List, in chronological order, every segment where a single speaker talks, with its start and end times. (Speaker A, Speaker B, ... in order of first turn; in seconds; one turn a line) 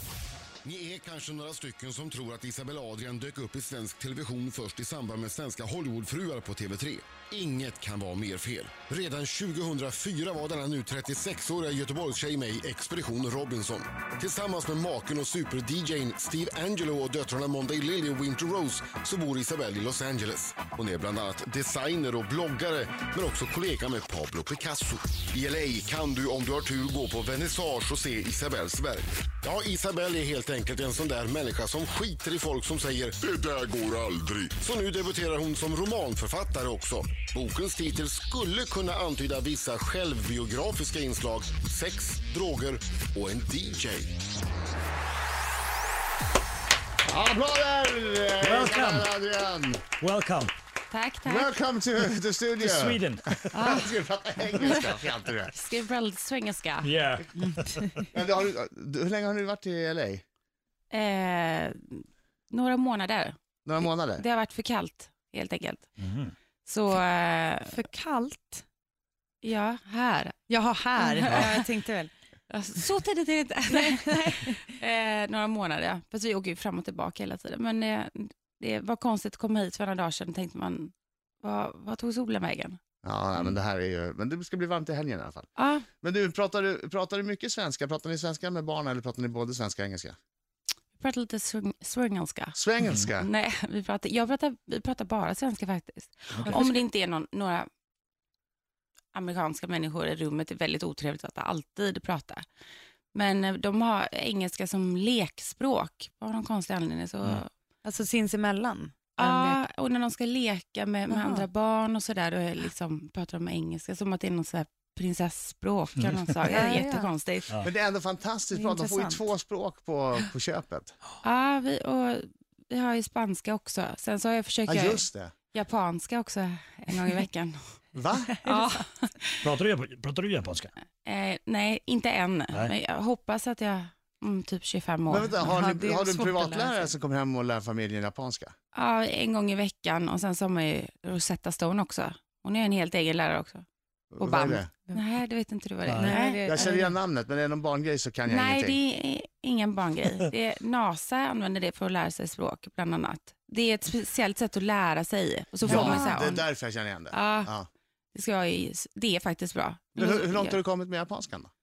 Speaker A: 0.6-44.1
Speaker B: 47.0-49.8
Speaker C: 48.4-49.1
Speaker C: 50.0-50.5
Speaker D: 50.9-51.5
Speaker B: 51.2-55.5
Speaker C: 52.6-53.2
Speaker D: 53.5-54.0
Speaker D: 54.5-55.0
Speaker D: 55.5-56.9
Speaker C: 56.8-58.0
Speaker B: 58.1-60.2
Speaker D: 60.9-65.8
Speaker B: 63.6-64.2
Speaker C: 66.0-66.3
Speaker D: 66.6-67.7
Speaker E: 67.7-68.6
Speaker D: 69.4-70.4
Speaker E: 70.5-72.1
Speaker D: 71.0-71.7
Speaker D: 72.5-82.8
Speaker E: 73.7-74.5
Speaker B: 83.0-85.5
Speaker D: 85.6-85.9
Speaker B: 86.0-90.2
Speaker D: 91.0-97.7
Speaker B: 92.5-93.3
Speaker E: 96.5-96.8
Speaker D: 99.1-102.4
Speaker D: 103.1-107.5
Speaker E: 107.8-109.6
Speaker D: 109.2-117.5
Speaker E: 111.1-111.5
Speaker C: 116.0-116.3
Speaker E: 116.5-117.1
Speaker B: 117.6-121.0
Speaker E: 118.5-119.3
Speaker D: 121.2-127.6
Speaker B: 124.7-125.3
Speaker B: 127.9-128.3
Speaker E: 128.3-128.8
Speaker D: 128.4-129.4
Speaker C: 129.4-130.7
Speaker D: 131.0-135.5
Speaker B: 135.1-138.5
Speaker E: 135.4-136.9
Speaker D: 138.7-143.6
Speaker B: 144.1-144.7
Speaker D: 144.2-146.7
Speaker C: 145.8-146.1
Speaker E: 146.0-146.9
Speaker B: 146.4-148.8
Speaker D: 148.2-156.5
Speaker B: 155.7-157.7
Speaker C: 155.7-156.0
Speaker E: 155.7-156.1
Speaker D: 157.1-157.5
Speaker D: 158.1-160.6
Speaker B: 159.9-161.5